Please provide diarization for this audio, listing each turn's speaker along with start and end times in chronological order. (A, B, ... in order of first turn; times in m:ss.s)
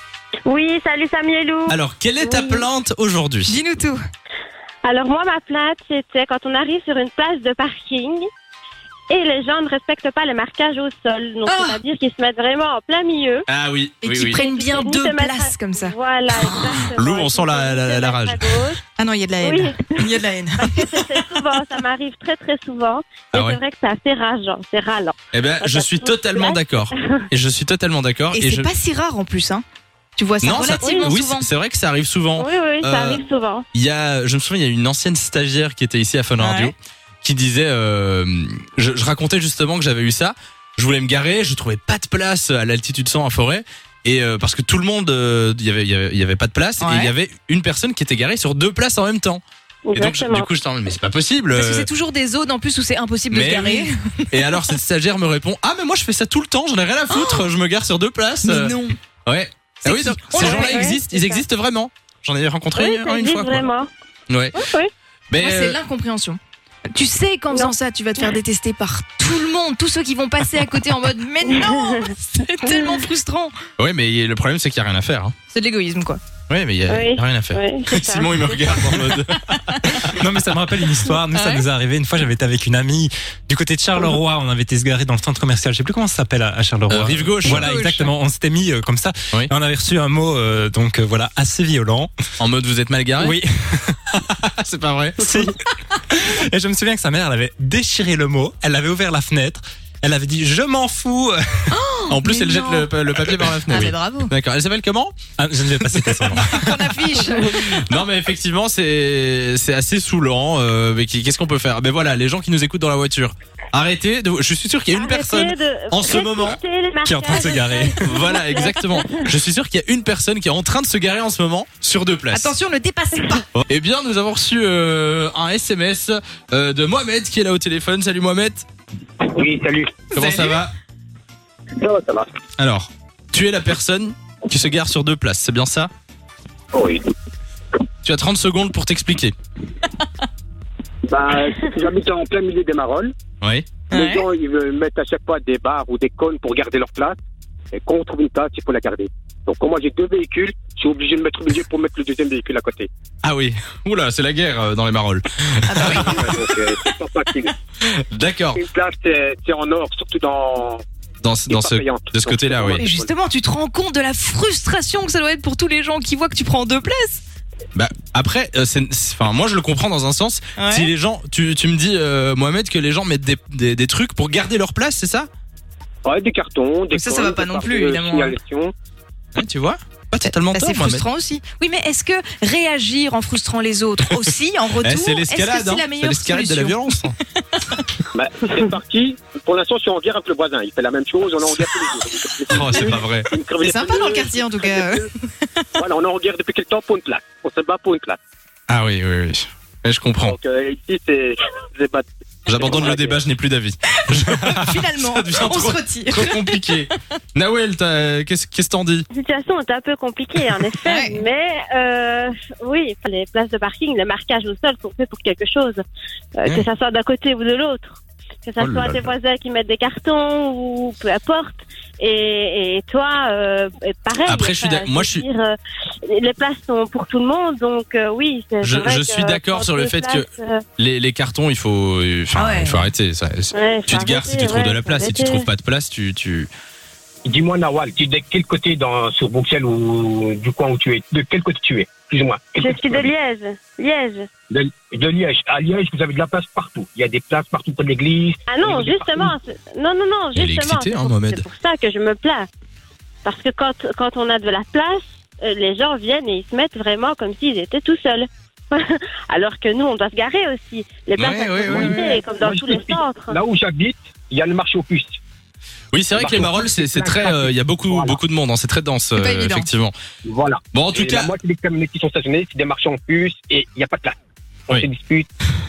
0:00.5-0:02.7 A
0:01.7-0:03.6 B
0:03.5-0:04.0 C
0:04.8-0:08.2 A
0:09.1-0:13.5 A
0:11.4-0:11.8 C
0:13.5-0:14.4 B
0:14.0-0:16.9 C
0:14.3-0:18.8 A
0:16.9-0:18.5 B
0:19.0-0:21.2 C
0:19.4-0:27.2 A
0:23.3-0:23.6 B
0:25.3-0:28.7 B
0:28.3-0:29.6 C
0:30.2-0:31.5 C
0:30.4-0:49.4 B
0:30.8-0:31.2 A
0:32.4-0:33.6 A
0:36.4-0:36.7 C
0:46.8-0:47.1 C
0:49.9-0:50.5 A
0:50.0-0:51.9 B
0:51.5-0:54.1 C
0:53.3-1:03.6 B
0:57.1-0:57.5 C
0:58.4-0:59.0 C
0:59.8-1:00.9 C
1:00.4-1:01.4 A
1:02.8-1:03.9 A
1:04.3-1:04.6 B
1:04.6-1:04.9 A
1:05.3-1:05.8 B
1:05.4-1:13.5 C
1:07.5-1:08.3 A
1:11.6-1:12.1 A
1:12.6-1:13.0 A
1:13.8-1:15.4 B
1:15.5-1:16.2 C
1:16.5-1:20.2 B
1:16.9-1:18.9 A
1:20.1-1:32.1 D
1:21.3-1:21.6 C
1:26.9-1:27.7 B
1:27.4-1:28.1 C
1:32.4-1:33.4 B
1:33.2-1:34.4 D
1:34.6-1:35.2 B
1:35.2-1:41.8 D
1:41.7-1:42.9 C
1:42.1-1:46.7 B
1:43.7-1:44.3 C
1:45.4-1:46.5 D
1:46.5-1:47.8 C
1:47.3-1:56.6 B
1:54.9-1:59.3 A
1:57.0-1:58.3 D
1:58.0-2:02.5 B
2:02.3-2:03.5 C
2:03.5-2:08.7 B
2:09.2-2:10.0 E
2:10.1-2:10.7 B
2:10.2-2:10.5 C
2:11.8-2:12.3 E
2:12.6-2:15.9 B
2:16.7-2:17.1 E
2:18.0-2:19.3 B
2:21.1-2:23.1 E
2:23.4-2:23.7 B
2:23.9-2:27.2 E
2:23.9-2:24.2 C
2:27.7-2:32.9 E
2:33.2-2:36.5 B
2:35.7-2:36.3 C
2:35.8-2:37.6 E
2:37.9-2:38.6 B
2:38.6-2:40.8 E
2:41.2-2:42.9 B
2:41.5-2:43.1 E
2:42.8-2:47.2 C
2:47.8-2:55.3 B
2:50.6-2:50.9 C
2:56.0-2:58.7 E
2:56.9-2:58.4 C
2:59.4-3:01.0 B
3:00.2-3:07.2 C
3:04.8-3:07.2 B
3:08.1-3:15.1 E
3:12.5-3:13.3 B
3:13.6-3:15.6 C
3:15.8-3:18.2 E
3:18.7-3:20.4 B
3:20.2-3:23.2 E
3:22.5-3:29.1 B
3:24.1-3:26.7 C
3:29.1-3:35.8 A
3:30.8-3:31.2 C
3:36.4-3:50.6 A
3:38.6-3:39.1 B
3:44.3-3:45.2 B
3:48.6-3:50.3 B
3:50.8-3:56.5 B
3:52.4-3:52.8 C
3:53.5-3:55.5 A
3:57.2-4:03.1 E
4:02.6-4:04.3 A
4:04.5-4:09.4 E
4:08.5-4:12.5 A
4:10.4-4:11.4 B
4:13.2-4:23.4 A
4:21.2-4:22.1 B
4:21.6-4:25.2 E
4:25.9-4:29.9 B
4:26.1-4:28.2 E
4:29.2-4:29.7 C
4:30.2-4:34.2 E
4:30.7-4:31.3 B
4:34.7-4:35.3 E